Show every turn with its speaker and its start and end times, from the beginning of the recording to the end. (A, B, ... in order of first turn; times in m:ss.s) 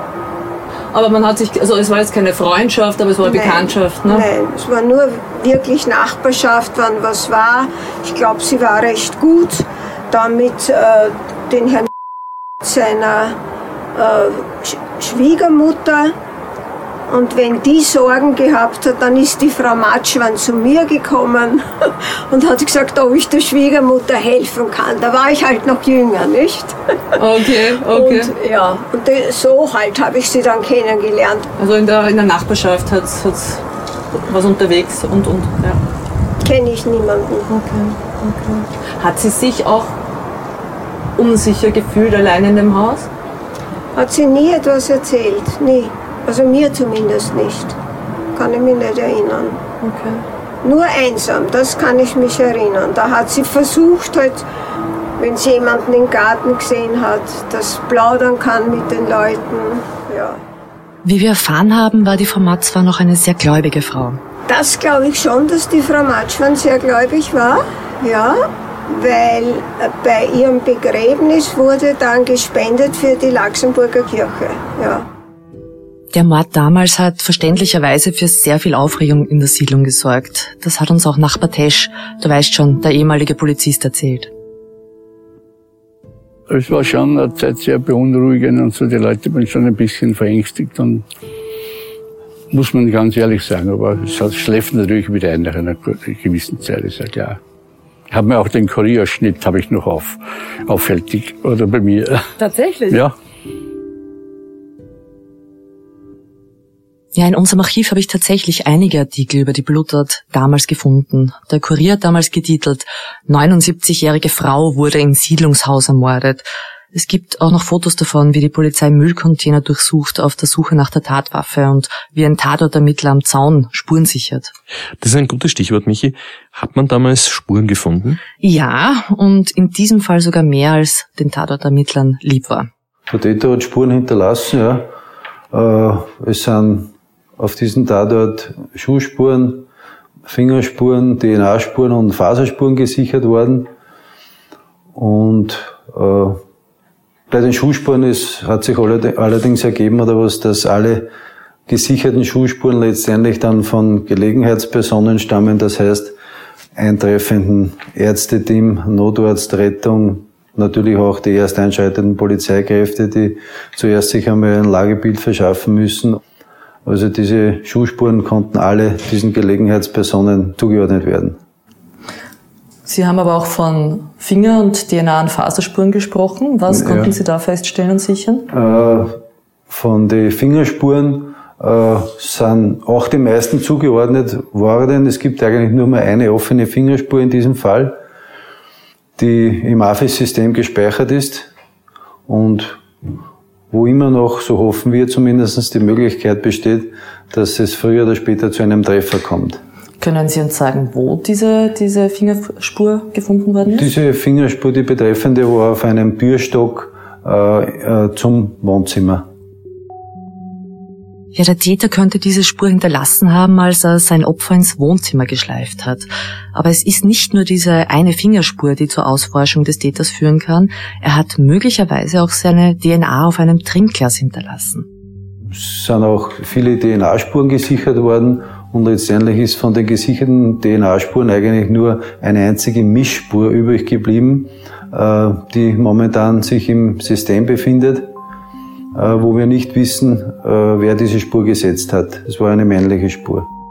0:00.9-0:04.2 A
0:03.2-0:11.9 B
0:12.6-0:13.4 B
0:13.9-0:16.1 B
0:17.1-0:26.8 B
0:27.2-0:28.3 A
0:27.9-0:31.5 B
0:31.6-0:33.6 A
0:34.3-0:35.8 A
0:36.4-0:37.5 B
0:37.5-0:40.0 A
0:41.2-0:43.1 A
0:43.9-0:47.8 B
0:48.3-0:49.6 B
0:49.8-0:50.2 A
0:50.6-0:54.4 B
0:55.2-1:00.4 B
1:01.0-1:04.2 C
1:04.5-1:15.0 B
1:16.1-1:24.3 C
1:26.5-1:31.0 D
1:32.5-1:37.4 D
1:38.1-1:42.3 D
1:42.4-1:43.0 A
1:47.1-2:04.5 C
2:05.0-2:08.2 E
2:08.4-2:12.7 C
2:13.1-2:14.9 F
2:15.5-2:19.6 F
2:20.2-2:23.7 F
2:24.9-2:26.4 F
2:27.3-2:31.1 F
2:31.7-2:36.1 F
2:36.7-2:46.2 F
2:46.8-2:51.4 F
2:52.8-2:58.5 A
2:56.7-2:57.1 F
2:58.5-2:59.2 F
2:59.7-3:08.0 F
3:09.2-3:11.5 F
3:12.3-3:12.8 F
3:13.7-3:19.6 F
3:20.0-3:23.9 A
3:23.6-3:29.3 F
3:31.3-3:44.9 C
3:45.5-3:58.1 F
3:58.9-4:03.5 F